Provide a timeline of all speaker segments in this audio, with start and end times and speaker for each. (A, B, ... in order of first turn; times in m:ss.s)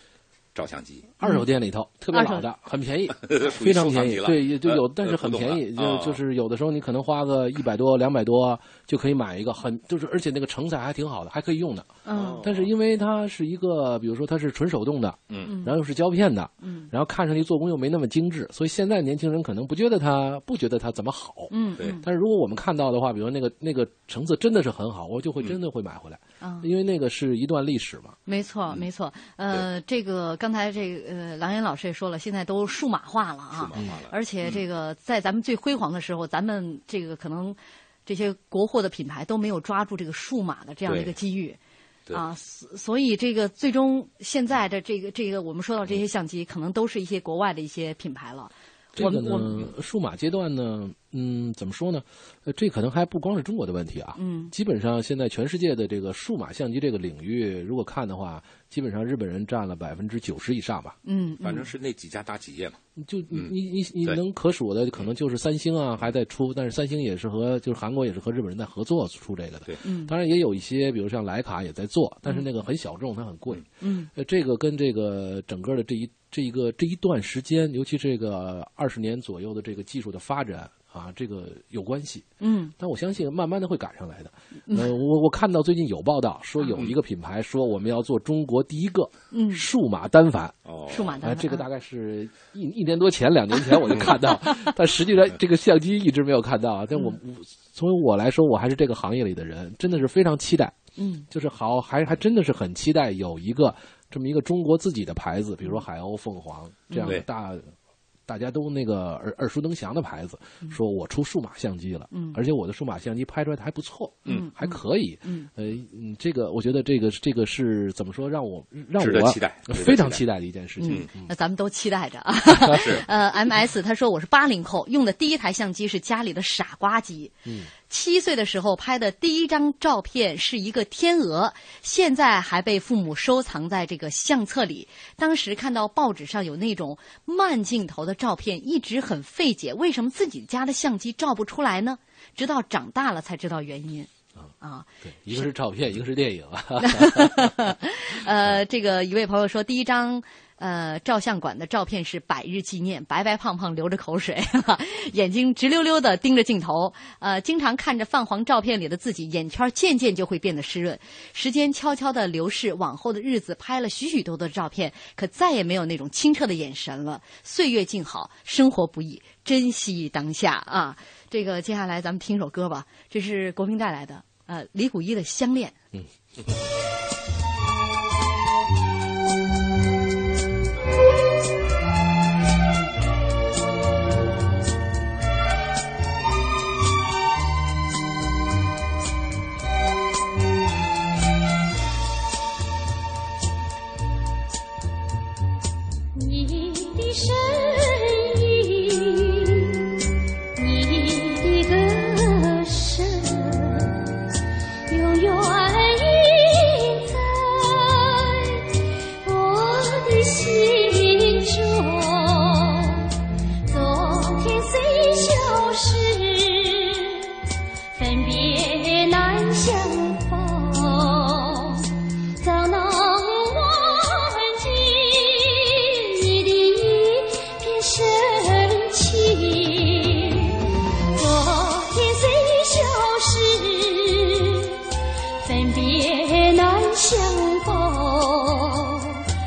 0:00.6-0:01.1 A
0:01.2-0:28.2 B
0:01.2-0:01.5 C
0:02.1-0:02.4 C
0:03.2-0:06.2 A
0:12.1-0:12.4 C
0:12.2-0:12.7 A
0:15.5-0:15.7 C
0:16.6-0:16.9 C
0:21.5-0:22.0 C
0:26.4-0:26.7 C
0:28.3-0:41.6 C
0:33.5-0:34.6 A
0:40.9-0:41.1 A
0:42.1-0:49.5 C
0:49.0-0:49.6 A
0:49.0-1:01.0 B
0:54.2-0:54.5 C
1:01.0-1:01.7 C
1:01.4-1:02.8 A
1:03.0-1:22.3 B
1:09.8-1:10.1 C
1:13.8-1:14.1 C
1:22.4-1:22.7 C
1:22.8-1:30.6 B
1:29.3-1:29.6 C
1:30.7-1:31.1 A
1:30.9-1:31.6 C
1:31.2-1:40.8 B
1:41.0-1:41.3 C
1:41.3-1:47.7 B
1:46.9-1:47.2 C
1:48.3-2:01.3 B
1:52.1-1:52.4 C
1:54.3-1:55.5 C
1:59.0-2:00.2 A
2:00.8-2:07.4 C
2:02.7-2:03.0 A
2:07.5-2:07.7 B
2:07.9-2:24.1 C
2:24.6-2:25.5 C
2:25.0-2:27.7 B
2:26.8-2:55.8 C
3:16.2-3:19.8 D
3:20.6-3:24.0 D
3:24.9-3:28.6 D
3:29.2-3:33.1 D
3:33.7-3:37.2 D
3:38.0-3:41.9 D
3:42.4-3:50.6 D
3:51.2-3:54.8 D
3:55.4-3:59.2 D